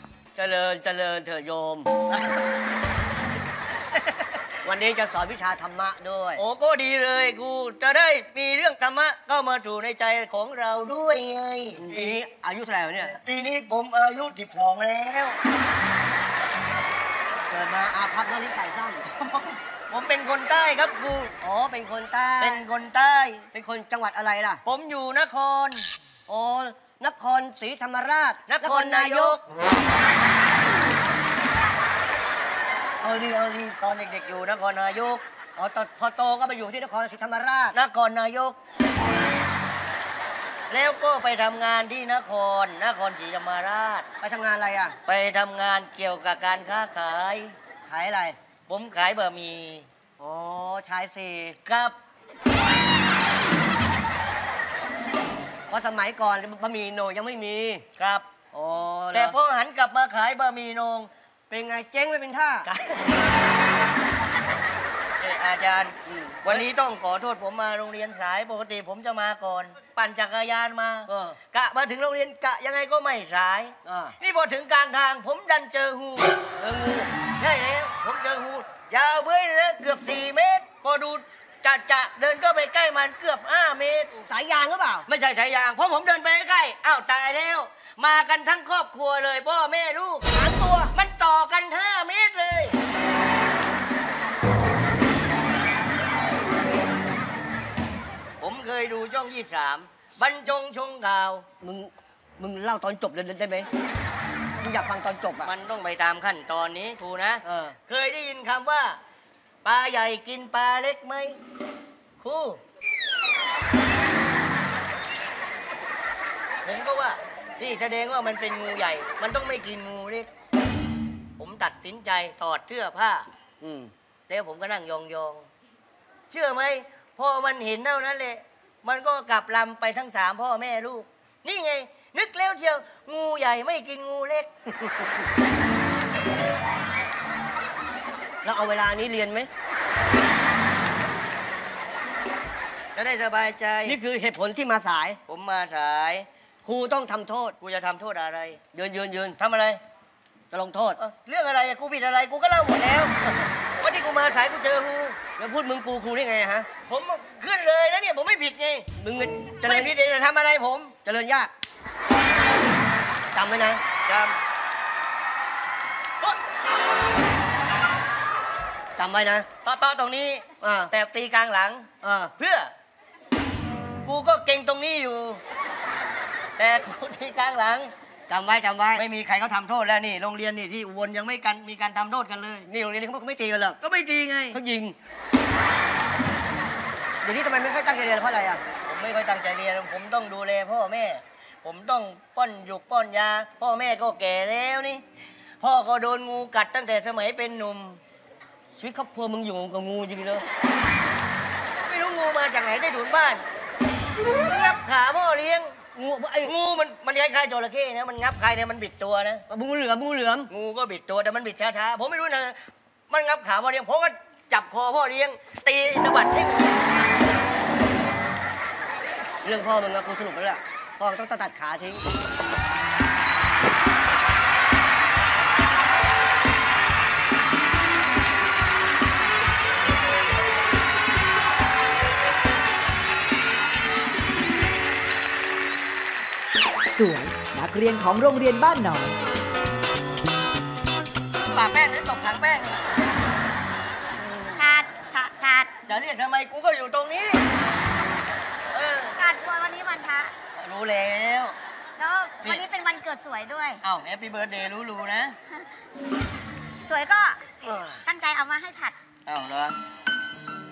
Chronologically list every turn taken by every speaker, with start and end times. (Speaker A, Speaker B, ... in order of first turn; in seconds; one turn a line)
Speaker A: 0.3-1.9
Speaker B: 2.1-2.4
Speaker B: 3.9-4.2
Speaker A: 4.6-6.4
Speaker B: 6.4-11.9
Speaker A: 11.8-13.2
Speaker B: 13.1-15.4
Speaker A: 17.5-19.1
Speaker B: 19.1-21.3
Speaker A: 21.4-22.6
Speaker B: 22.4-23.5
Speaker A: 23.5-24.6
Speaker B: 24.6-25.9
Speaker A: 26.3-29.4
Speaker B: 28.5-29.4
Speaker A: 33.0-33.8
Speaker B: 33.8-35.2
Speaker A: 35.5-37.8
Speaker B: 37.7-38.6
Speaker B: 40.7-44.0
Speaker A: 44.2-45.0
Speaker B: 45.0-47.5
Speaker A: 47.9-48.4
Speaker B: 48.7-49.9
Speaker A: 50.2-51.6
Speaker B: 51.6-52.0
Speaker A: 55.7-57.8
Speaker B: 58.0-58.2
Speaker A: 58.5-59.4
Speaker B: 59.1-61.1
Speaker A: 61.5-62.7
Speaker B: 62.7-63.1
Speaker B: 65.2-76.3
Speaker A: 66.1-66.6
Speaker A: 71.1-71.4
Speaker A: 73.8-74.1
Speaker A: 76.6-77.1
Speaker B: 77.4-84.2
Speaker A: 84.2-85.1
Speaker B: 85.1-90.2
Speaker A: 90.3-90.9
Speaker B: 90.9-92.8
Speaker B: 98.4-101.5
Speaker A: 101.6-103.7
Speaker A: 104.6-105.5
Speaker B: 105.4-109.0
Speaker A: 107.4-107.8
Speaker B: 109.6-111.4
Speaker B: 112.2-112.6
Speaker B: 116.6-120.3
Speaker B: 121.4-123.3
Speaker A: 123.6-123.9
Speaker B: 124.3-125.5
Speaker B: 126.3-134.5
Speaker A: 138.4-139.5
Speaker B: 142.9-144.0
Speaker A: 143.8-145.2
Speaker B: 145.3-146.2
Speaker A: 146.6-147.6
Speaker B: 147.6-148.6
Speaker A: 148.7-149.4
Speaker B: 149.4-149.8
Speaker A: 150.5-151.0
Speaker B: 151.0-153.1
Speaker B: 153.8-155.2
Speaker A: 155.4-156.7
Speaker B: 156.9-158.8
Speaker A: 159.0-159.9
Speaker B: 159.6-160.9
Speaker A: 161.0-161.5
Speaker A: 163.3-163.8
Speaker B: 164.1-164.4
Speaker A: 169.0-169.5
Speaker B: 169.7-171.9
Speaker A: 170.6-170.9
Speaker A: 172.0-172.3
Speaker B: 172.4-172.7
Speaker B: 174.0-175.4
Speaker B: 176.6-177.9
Speaker A: 178.3-179.0
Speaker B: 178.9-182.7
Speaker A: 182.7-183.8
Speaker B: 183.8-184.6
Speaker A: 184.5-184.9
Speaker A: 187.2-188.6
Speaker B: 188.8-195.0
Speaker B: 195.6-198.0
Speaker A: 198.8-200.4
Speaker B: 201.8-203.4
Speaker B: 204.2-205.8
Speaker A: 205.9-206.5
Speaker B: 206.4-209.4
Speaker A: 209.5-210.5
Speaker B: 210.5-212.6
Speaker B: 213.1-216.9
Speaker A: 219.4-222.0
Speaker C: 236.9-239.1
Speaker B: 241.3-242.8
Speaker A: 244.2-244.5
Speaker D: 244.5-245.7
Speaker B: 245.9-247.4
Speaker B: 248.7-249.2
Speaker D: 249.2-250.3
Speaker B: 250.5-251.6
Speaker D: 252.0-253.8
Speaker B: 253.8-255.3
Speaker D: 256.9-257.4
Speaker A: 257.6-258.0
Speaker D: 258.0-258.9
Speaker B: 259.2-259.8